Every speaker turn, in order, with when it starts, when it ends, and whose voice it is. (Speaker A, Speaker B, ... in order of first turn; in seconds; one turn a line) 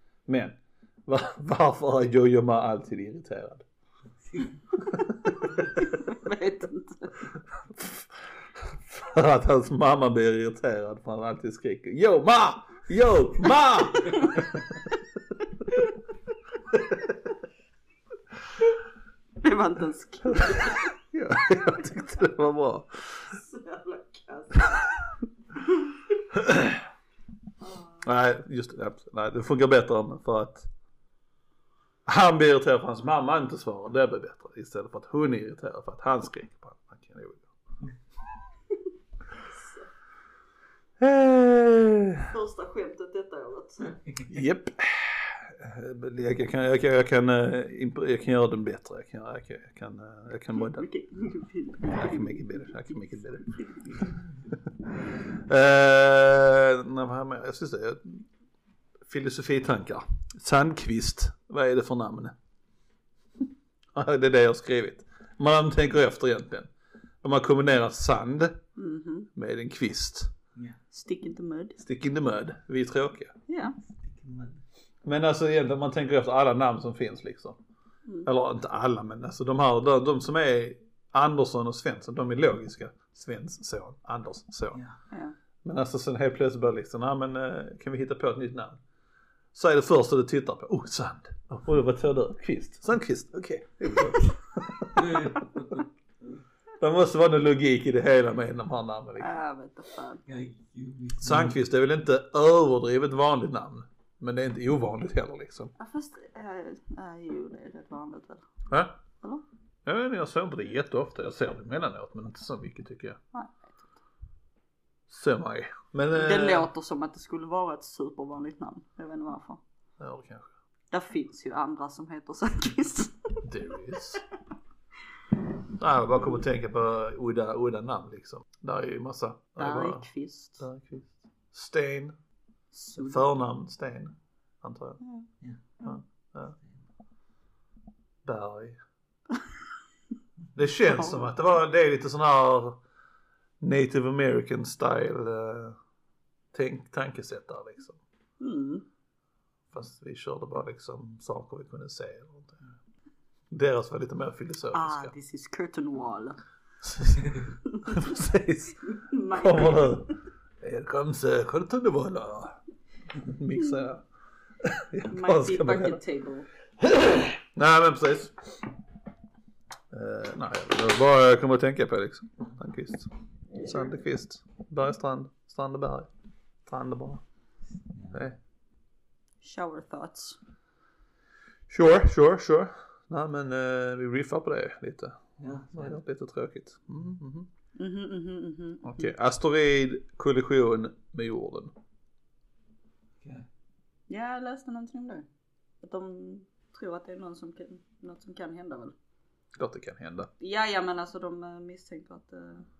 Speaker A: 0.3-3.6
Speaker A: 4.8-5.8
Speaker B: 5.8-7.3
Speaker A: 7.6-14.4
Speaker B: 14.0-14.5
Speaker A: 16.7-17.1
Speaker B: 19.4-20.9
Speaker A: 20.4-23.3
Speaker B: 23.3-25.0
Speaker A: 26.3-26.8
Speaker B: 27.6-28.0
Speaker A: 28.0-30.7
Speaker A: 32.1-37.5
Speaker B: 39.5-39.9
Speaker A: 41.0-42.3
Speaker B: 42.3-44.0
Speaker A: 44.3-50.9
Speaker B: 50.5-52.8
Speaker A: 51.8-58.3
Speaker B: 53.6-54.1
Speaker A: 59.0-62.3
Speaker A: 63.9-66.7
Speaker A: 67.2-68.6
Speaker B: 68.8-69.3
Speaker A: 69.3-70.3
Speaker B: 70.9-71.8
Speaker A: 71.8-73.3
Speaker B: 73.5-73.8
Speaker C: 74.0-74.6
Speaker A: 75.0-77.6
Speaker A: 78.2-84.8
Speaker A: 85.6-88.8
Speaker A: 89.5-95.3
Speaker C: 95.0-95.8
Speaker A: 96.8-99.3
Speaker B: 99.2-100.2
Speaker C: 100.3-101.5
Speaker A: 101.2-105.7
Speaker B: 105.8-108.4
Speaker A: 108.7-109.0
Speaker A: 109.8-113.2
Speaker B: 113.3-114.0
Speaker A: 115.1-116.7
Speaker B: 116.1-119.6
Speaker A: 120.0-120.5
Speaker B: 120.9-123.4
Speaker A: 123.4-124.2
Speaker A: 125.8-130.1
Speaker B: 129.6-130.7
Speaker A: 130.6-132.2
Speaker B: 132.7-133.3
Speaker A: 133.0-135.0
Speaker A: 135.8-136.6
Speaker A: 138.2-138.8
Speaker A: 140.6-142.8
Speaker B: 140.9-141.3
Speaker A: 143.6-145.8
Speaker A: 146.5-148.0
Speaker B: 148.4-148.8
Speaker A: 149.7-152.7
Speaker A: 153.5-155.1
Speaker B: 154.7-156.4
Speaker A: 156.8-160.1
Speaker B: 157.7-158.0
Speaker B: 158.9-160.1
Speaker A: 160.6-162.6
Speaker A: 163.1-164.0
Speaker A: 164.6-166.0
Speaker B: 165.1-166.5
Speaker A: 166.8-168.7
Speaker A: 169.9-176.1
Speaker A: 176.7-177.2
Speaker C: 177.9-178.2
Speaker A: 178.1-178.4
Speaker B: 179.4-180.4
Speaker A: 181.7-187.5
Speaker C: 185.4-186.0
Speaker B: 187.8-189.1
Speaker A: 188.8-191.7
Speaker C: 193.2-193.5
Speaker B: 194.1-195.3
Speaker B: 195.8-198.9
Speaker A: 199.6-200.3
Speaker B: 200.4-202.7